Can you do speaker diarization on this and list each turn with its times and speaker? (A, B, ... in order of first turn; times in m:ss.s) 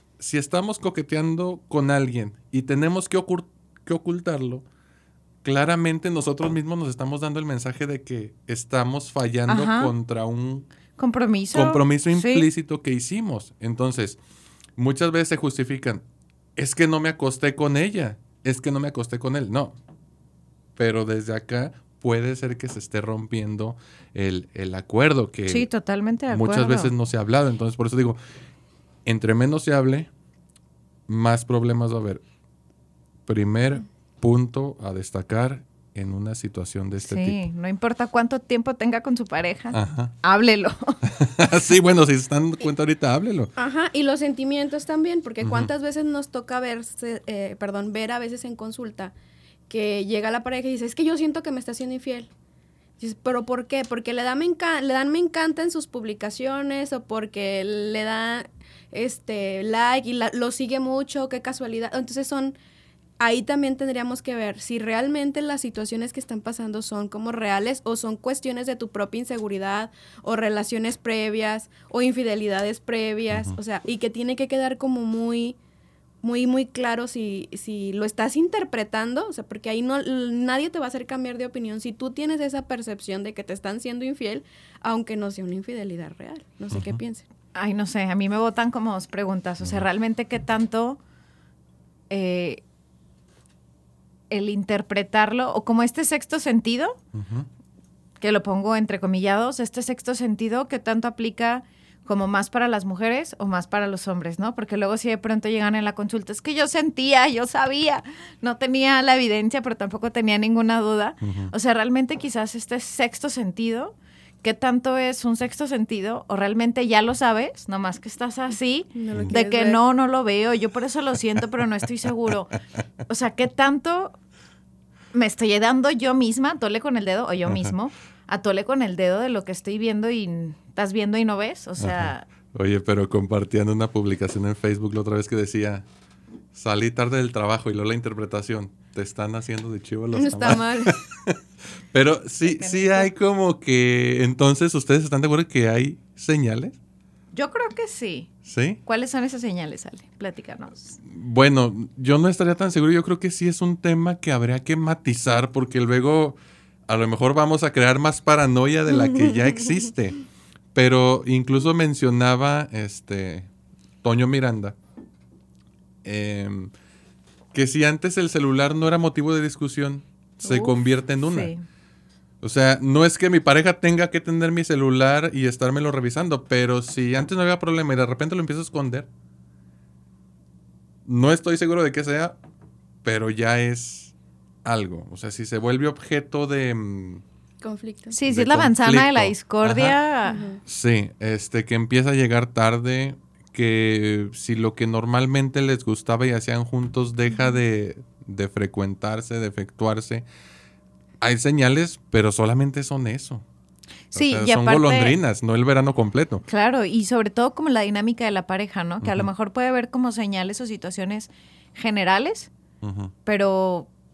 0:00.2-0:04.6 A
0:05.4-0:10.7 A
0:09.5-0:09.9 B
0:11.0-0:12.5 B
0:11.5-0:14.2 A
0:14.8-0:16.0 A
0:16.6-0:19.8 A
0:20.8-0:25.7 A
0:25.5-0:26.9 B
0:26.3-0:28.2 A
0:29.0-0:30.1 A
0:31.1-0:32.2 A
0:33.3-0:37.4 A
0:37.0-0:41.0 B
0:39.7-0:40.1 A
0:41.1-0:43.5 A
0:43.6-0:49.1 C
0:45.4-0:45.7 A
0:49.7-0:52.3 C
0:53.0-1:02.6 C
1:03.2-1:15.6 C
1:13.3-1:13.6 A
1:16.2-1:27.2 C
1:26.7-1:27.0 A
1:27.6-1:31.0 B
1:32.1-1:32.6 B
1:34.3-1:37.0 B
1:37.1-1:37.5 A
1:38.2-2:02.6 B
1:51.2-1:51.5 A
1:58.9-1:59.8 C
2:03.1-2:04.2 B
2:05.1-2:12.3 B
2:07.5-2:07.7 A
2:11.8-2:15.9 A
2:16.5-2:21.4 A
2:20.1-2:21.0 C
2:21.9-2:26.8 A
2:22.4-2:23.1 B
2:27.3-2:28.3 B
2:28.5-2:28.8 A
2:28.8-2:31.0 B
2:31.0-2:40.2 A
2:40.8-2:43.5 A
2:44.0-2:44.8 A
2:46.0-2:46.7 A
2:47.5-2:51.5 A
2:50.4-2:51.6 B
2:52.4-2:59.1 A
3:01.0-3:02.4 A
3:03.0-3:04.1 A
3:04.6-3:07.2 A
3:07.6-3:08.2 C
3:08.1-3:10.5 B
3:08.3-3:10.0 A
3:10.3-3:10.6 C
3:10.7-3:20.2 A
3:21.2-3:23.4 A
3:24.1-3:25.2 B
3:24.1-3:26.4 A
3:26.5-3:32.5 B
3:29.0-3:29.3 A
3:32.8-3:33.1 A
3:33.3-3:33.9 B